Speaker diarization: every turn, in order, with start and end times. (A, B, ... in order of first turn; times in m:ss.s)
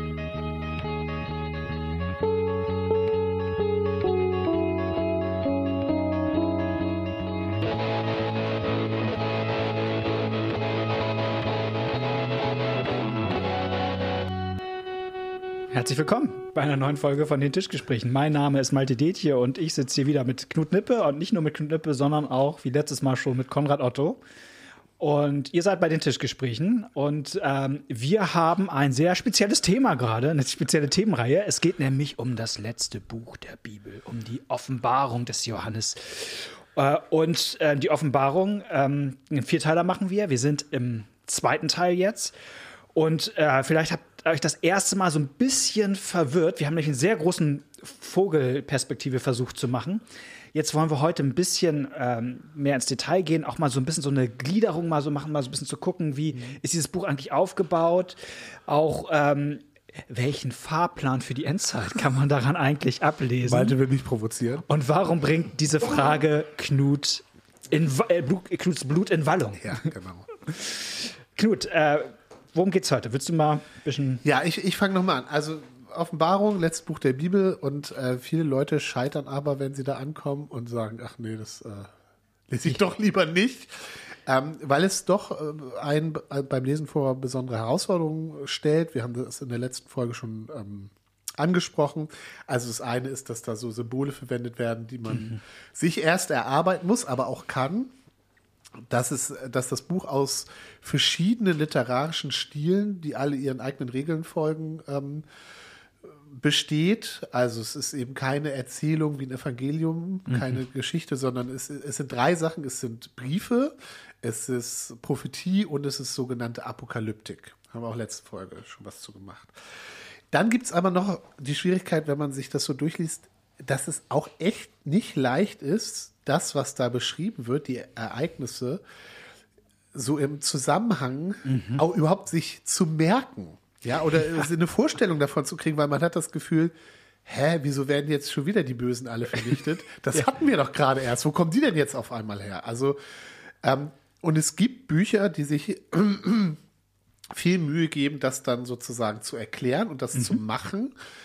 0:15.7-0:24.2 A
0:25.0-0:42.4 A
0:43.0-1:03.8 A
0:56.3-0:56.6 B
1:03.4-1:04.7 B
1:04.7-1:09.9 A
1:09.6-1:10.3 B
1:10.5-1:14.2 A
1:14.2-1:21.9 B
1:22.5-1:37.9 B
1:35.1-1:35.4 A
1:38.9-1:45.2 B
1:46.0-2:08.8 B
1:50.3-1:50.6 A
2:09.9-2:23.0 B
2:11.4-2:11.8 A
2:23.6-2:26.6 B
2:27.3-2:30.9 B
2:30.1-2:30.4 A